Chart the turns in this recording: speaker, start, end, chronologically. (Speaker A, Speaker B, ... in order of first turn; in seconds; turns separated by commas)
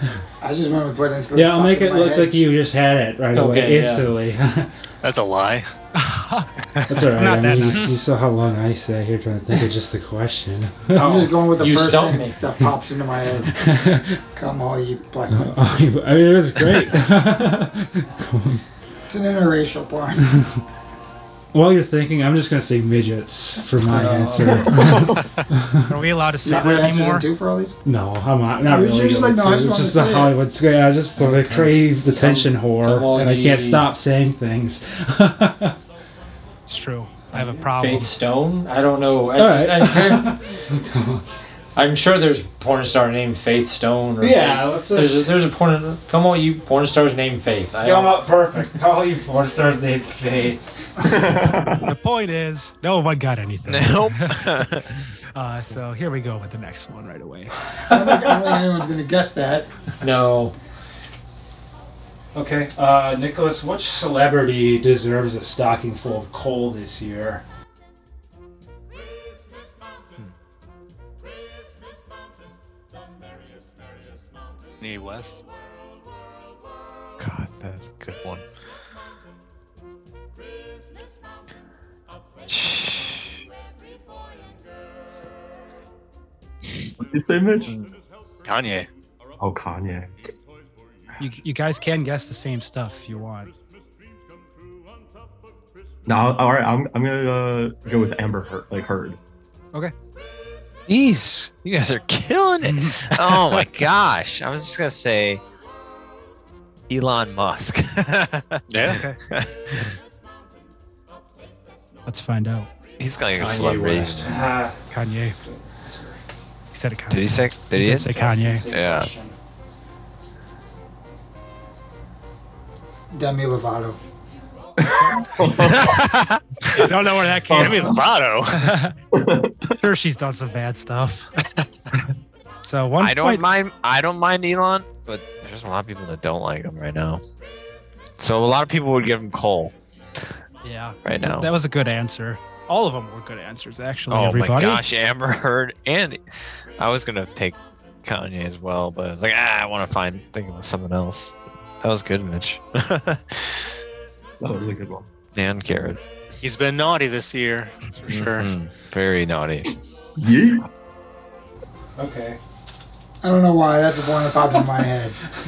Speaker A: 0.4-2.4, Speaker B: 1.3-4.8, Speaker C: 3.3-4.2, Speaker D: 5.0-5.7, Speaker E: 6.0-6.5, Speaker B: 6.9-11.3, Speaker E: 7.1-8.1, Speaker A: 10.9-13.6, Speaker C: 11.4-12.4, Speaker B: 13.6-14.2, Speaker A: 14.3-15.8, Speaker B: 15.3-18.6, Speaker A: 19.1-20.4, Speaker B: 21.5-25.8, Speaker C: 23.8-25.1, Speaker E: 23.9-25.1, Speaker E: 25.7-27.3, Speaker A: 26.4-27.8, Speaker B: 27.9-35.8, Speaker A: 28.6-30.4, Speaker C: 31.2-34.0, Speaker E: 36.7-38.1, Speaker C: 37.3-40.4, Speaker B: 39.4-41.2, Speaker C: 41.8-48.7, Speaker B: 44.2-45.3, Speaker B: 47.8-50.6, Speaker F: 51.0-51.9, Speaker E: 51.8-54.8, Speaker G: 53.6-54.9, Speaker E: 55.3-57.9, Speaker A: 57.9-59.7, Speaker C: 60.0-60.5, Speaker B: 62.4-67.4, Speaker E: 64.2-65.3, Speaker D: 74.8-75.4, Speaker G: 77.2-78.5, Speaker G: 82.5-83.4, Speaker F: 87.0-87.9, Speaker D: 88.5-88.9, Speaker F: 89.4-90.1, Speaker E: 91.2-93.5, Speaker F: 96.1-99.2, Speaker G: 100.9-105.4, Speaker E: 102.6-103.5, Speaker G: 106.9-109.7, Speaker D: 108.7-109.0, Speaker E: 108.8-109.2, Speaker E: 112.1-112.7, Speaker G: 113.0-114.6, Speaker C: 113.4-114.7, Speaker B: 114.3-114.8, Speaker E: 114.8-115.4, Speaker B: 115.5-116.2, Speaker E: 116.7-118.7, Speaker G: 117.1-118.2, Speaker C: 118.1-119.0, Speaker B: 118.2-119.3, Speaker G: 118.7-119.1, Speaker A: 123.1-124.0, Speaker F: 124.8-126.1, Speaker E: 125.0-125.3, Speaker G: 125.6-126.4, Speaker E: 126.7-128.0, Speaker D: 127.5-128.8, Speaker F: 127.5-127.9, Speaker E: 128.5-128.9, Speaker F: 129.1-129.7, Speaker E: 129.8-131.3, Speaker E: 132.6-133.5, Speaker G: 133.0-137.2, Speaker G: 138.2-139.7, Speaker E: 140.6-144.8, Speaker G: 141.1-141.5, Speaker G: 144.1-146.2, Speaker G: 146.8-153.8, Speaker F: 154.4-155.1, Speaker G: 155.3-156.0, Speaker D: 156.4-158.5, Speaker G: 158.1-159.7, Speaker F: 160.2-160.7, Speaker E: 162.0-162.4, Speaker A: 163.2-165.2